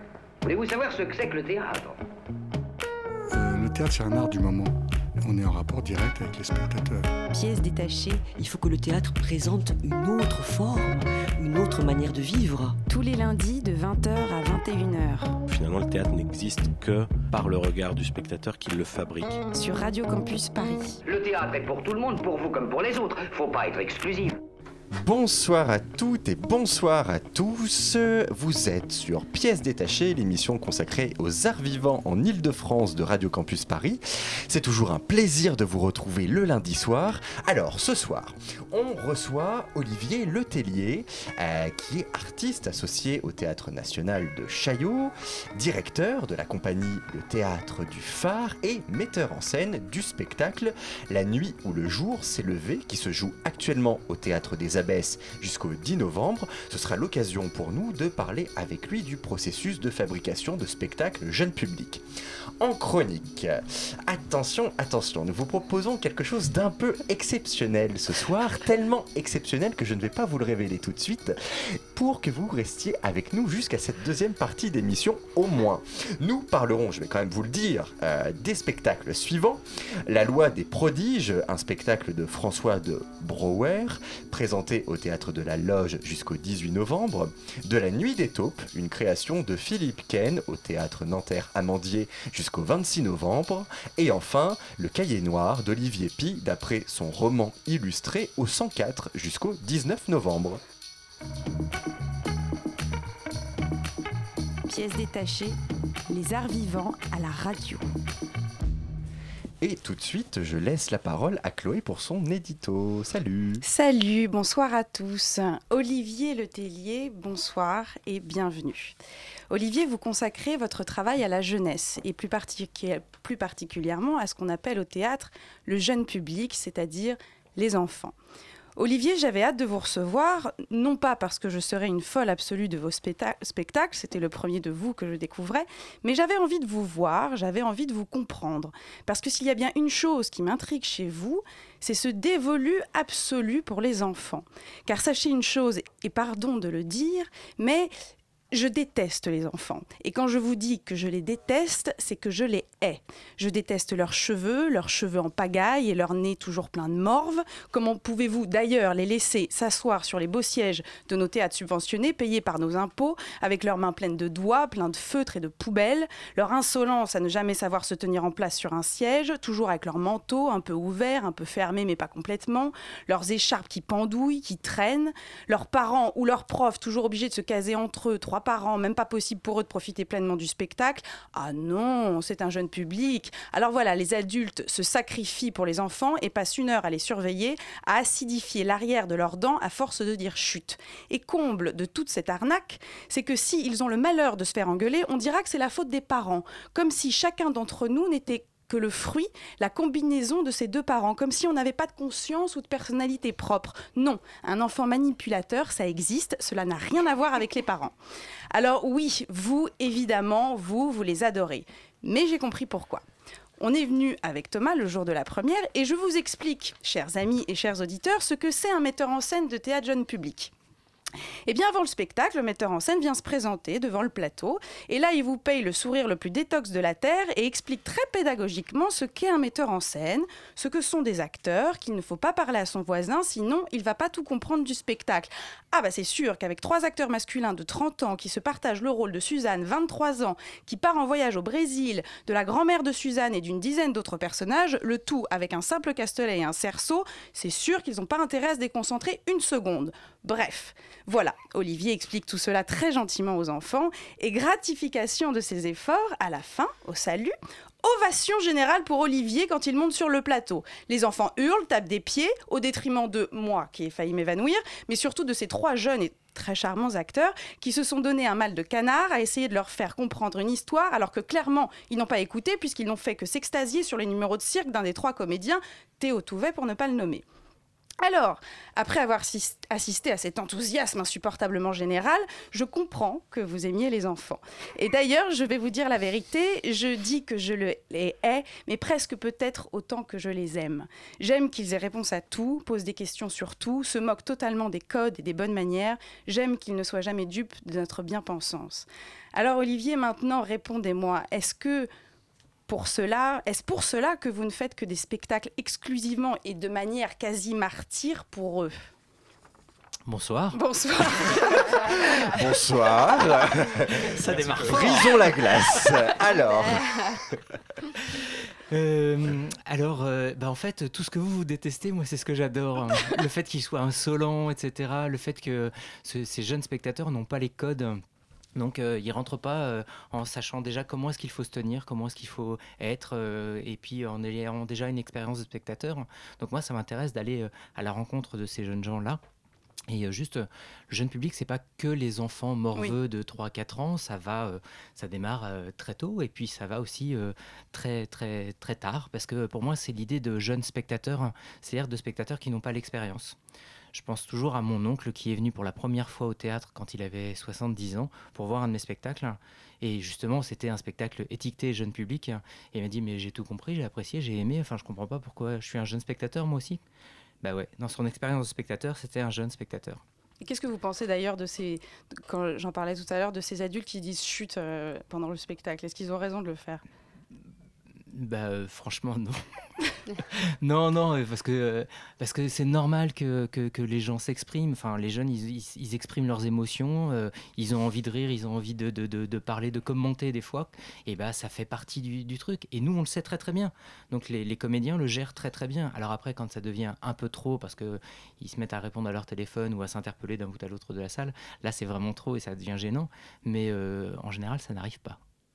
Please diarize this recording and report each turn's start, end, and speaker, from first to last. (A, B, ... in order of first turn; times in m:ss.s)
0:00.4-0:02.0 A
0:03.3-0:07.1 B
0:07.3-0:08.3 C
0:08.3-0:12.8 D
0:12.9-0:15.3 C
0:15.5-0:19.4 E
0:19.5-0:21.0 C
0:21.0-0:24.4 A
0:25.0-1:02.0 F
1:02.6-1:40.6 F
1:44.7-1:45.6 C
1:46.1-1:47.8 C
1:49.6-1:53.6 F
1:53.6-1:59.0 C
1:59.5-2:08.1 C
2:08.8-2:27.9 C
2:28.5-3:27.9 C
3:28.5-3:33.0 C
3:33.6-3:40.5 C
3:41.5-4:37.2 C
4:38.0-5:01.9 C
5:02.7-5:08.8 C
5:10.1-5:10.6 G
5:10.5-5:12.4 C
5:12.2-5:17.3 F
5:14.4-5:15.2 C
5:18.7-5:28.0 G
5:28.6-5:39.2 G
5:39.9-5:53.4 G
5:53.9-6:06.8 G
6:07.4-6:10.0 G
6:10.4-6:16.8 C
6:18.1-6:19.4 G
6:20.3-6:45.2 G